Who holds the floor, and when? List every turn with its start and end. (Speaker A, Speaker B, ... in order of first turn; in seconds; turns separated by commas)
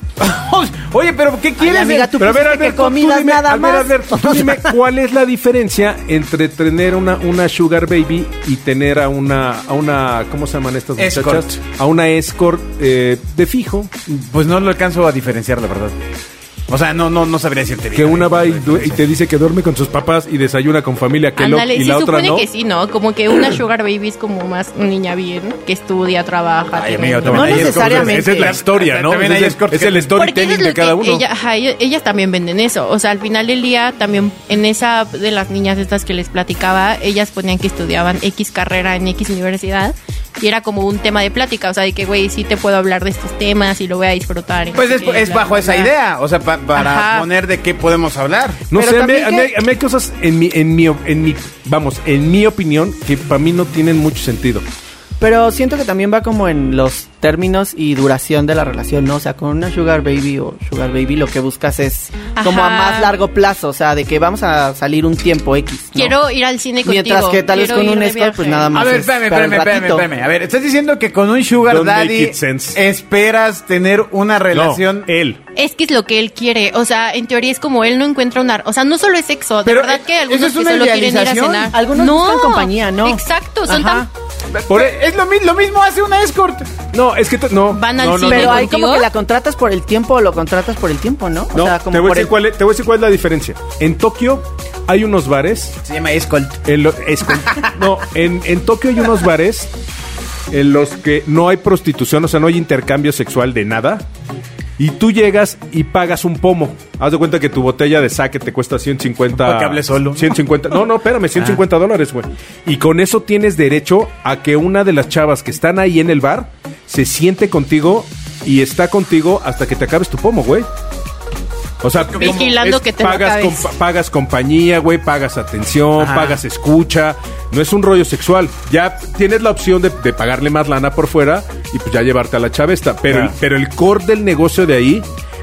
Speaker A: 0.2-2.2, Speaker B: 1.6-4.7, Speaker C: 2.2-13.9, Speaker A: 11.0-11.6, Speaker A: 14.1-16.0, Speaker A: 16.7-19.0, Speaker C: 17.9-22.5, Speaker D: 21.4-27.6, Speaker A: 26.7-30.1, Speaker C: 27.2-31.2, Speaker B: 27.3-28.6, Speaker D: 30.1-45.9, Speaker A: 44.7-48.6, Speaker D: 46.7-47.2, Speaker C: 48.7-54.6, Speaker B: 48.7-49.5, Speaker B: 55.2-66.2, Speaker D: 62.3-63.2, Speaker D: 65.9-68.8, Speaker B: 66.8-70.1, Speaker A: 68.7-75.1, Speaker C: 71.6-72.8, Speaker C: 74.5-75.4, Speaker D: 75.5-84.1, Speaker A: 79.6-81.7, Speaker B: 81.7-84.1, Speaker A: 84.5-86.7, Speaker C: 84.7-85.0, Speaker C: 86.9-88.7, Speaker D: 87.7-89.1, Speaker B: 88.2-92.3, Speaker C: 91.5-95.8, Speaker A: 95.8-96.6, Speaker C: 96.7-99.7, Speaker C: 100.5-104.0, Speaker C: 104.8-120.7, Speaker A: 109.3-110.4, Speaker C: 121.8-135.0, Speaker A: 122.0-122.5, Speaker D: 122.1-123.7, Speaker A: 126.0-126.4, Speaker A: 133.1-133.3